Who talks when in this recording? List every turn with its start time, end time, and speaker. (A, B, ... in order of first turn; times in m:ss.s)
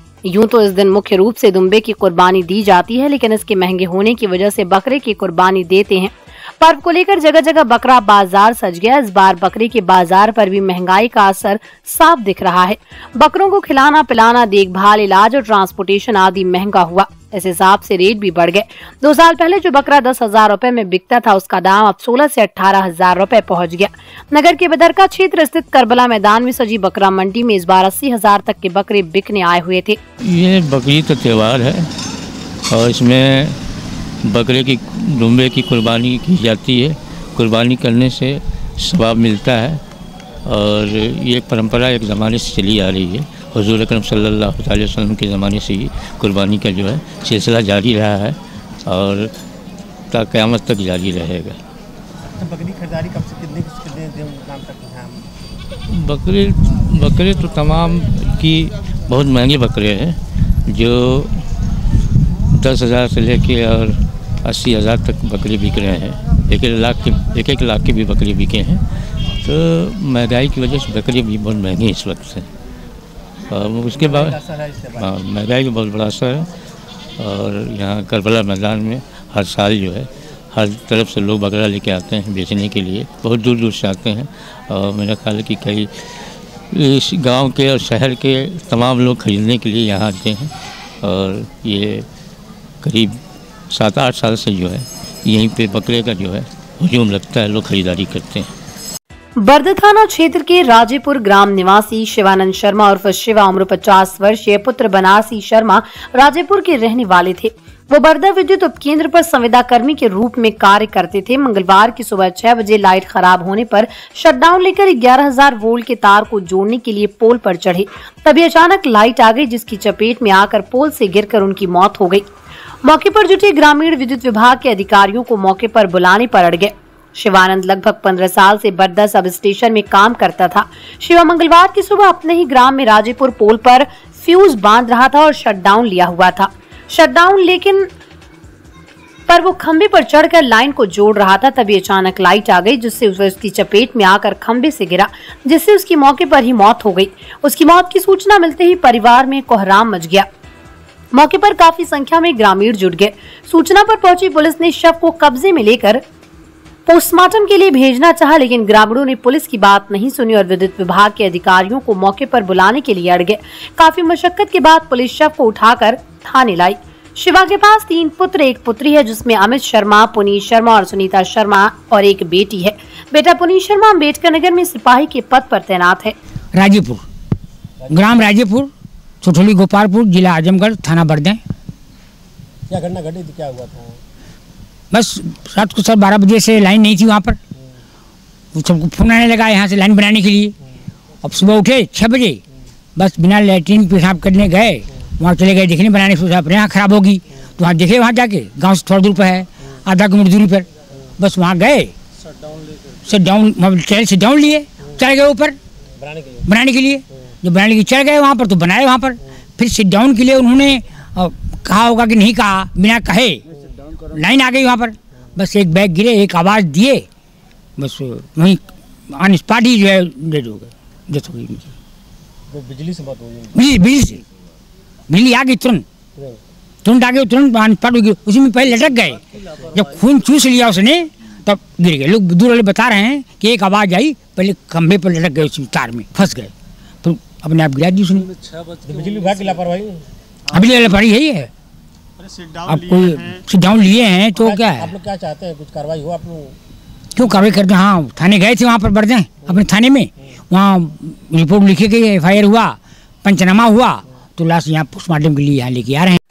0:00.2-0:30.0 A
0:30.2-0:31.9 B
0:32.7-0:33.6 B
0:34.2-0:39.8 B
0:40.4-0:49.3 B
0:50.1-0:51.6 B
0:52.3-0:55.2 C
0:55.9-1:01.4 B
1:02.5-1:08.8 B
1:09.4-1:12.5 B
1:13.5-1:14.4 B
1:13.9-1:15.1 C
1:14.9-1:16.5 B
1:17.2-1:25.9 B
1:26.7-1:30.5 B
1:31.0-1:32.0 B
1:32.8-1:33.1 B
1:33.7-1:38.5 B
1:39.4-2:02.3 A
2:02.8-2:17.9 A
2:19.3-2:30.3 A
2:31.1-2:36.0 A
2:36.8-2:56.2 A
2:56.5-2:57.0 D
2:57.9-2:58.7 D
2:59.2-3:01.4 D
3:02.7-3:04.0 C
3:04.9-3:07.4 D
3:08.5-3:10.5 D
3:11.2-3:12.4 D
3:13.0-3:20.6 D
3:21.2-3:21.9 D
3:23.0-3:25.6 D
3:26.0-3:26.4 C
3:26.4-3:33.4 D
3:34.1-3:37.0 D
3:37.8-3:38.6 D
3:39.1-3:41.7 D
3:42.5-3:43.5 C
3:43.5-3:44.2 D
3:45.1-3:45.8 D
3:46.8-3:49.2 D
3:49.7-3:56.5 D
3:57.0-3:58.3 D
3:58.8-4:00.0 C
4:00.5-4:01.5 D
4:02.6-4:04.9 D
4:04.4-4:06.6 C
4:07.2-4:16.2 D